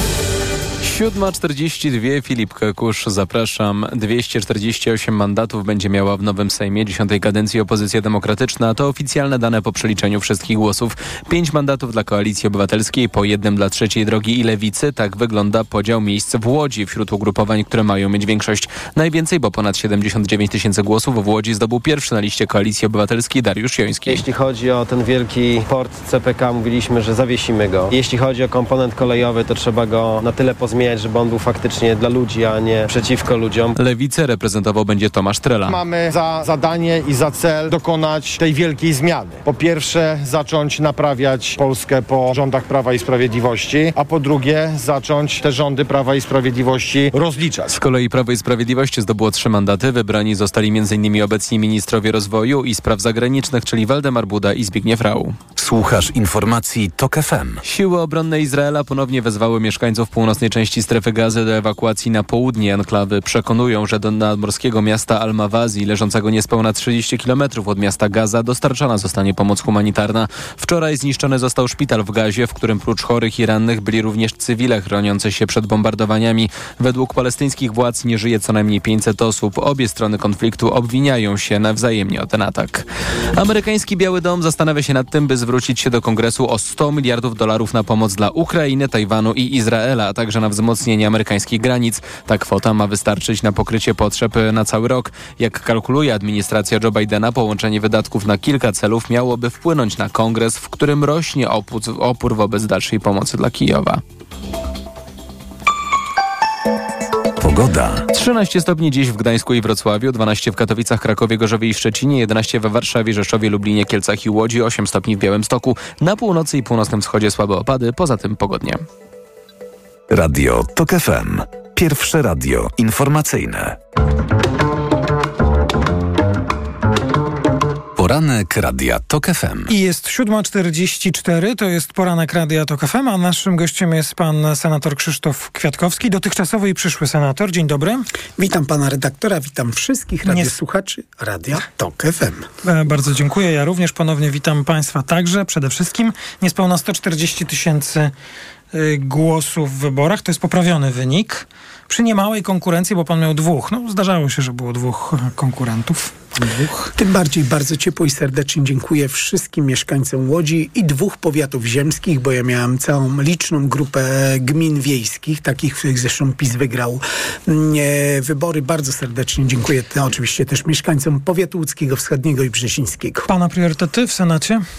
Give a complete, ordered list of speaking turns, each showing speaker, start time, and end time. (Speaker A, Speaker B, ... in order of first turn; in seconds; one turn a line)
Speaker A: 0.8-24.2
Speaker B: 24.1-33.8
Speaker A: 33.8-35.8
Speaker C: 35.7-47.7
Speaker A: 47.7-55.4
Speaker D: 55.6-57.6
Speaker A: 57.6-104.0
Speaker D: 107.4-108.1
Speaker A: 108.1-118.8
Speaker D: 120.1-123.8
Speaker D: 128.0-129.7
Speaker E: 129.7-138.1
Speaker F: 138.4-142.4
Speaker E: 140.3-140.5
Speaker E: 142.6-148.1
Speaker E: 148.7-156.9
Speaker F: 156.9-173.3
Speaker E: 173.3-174.6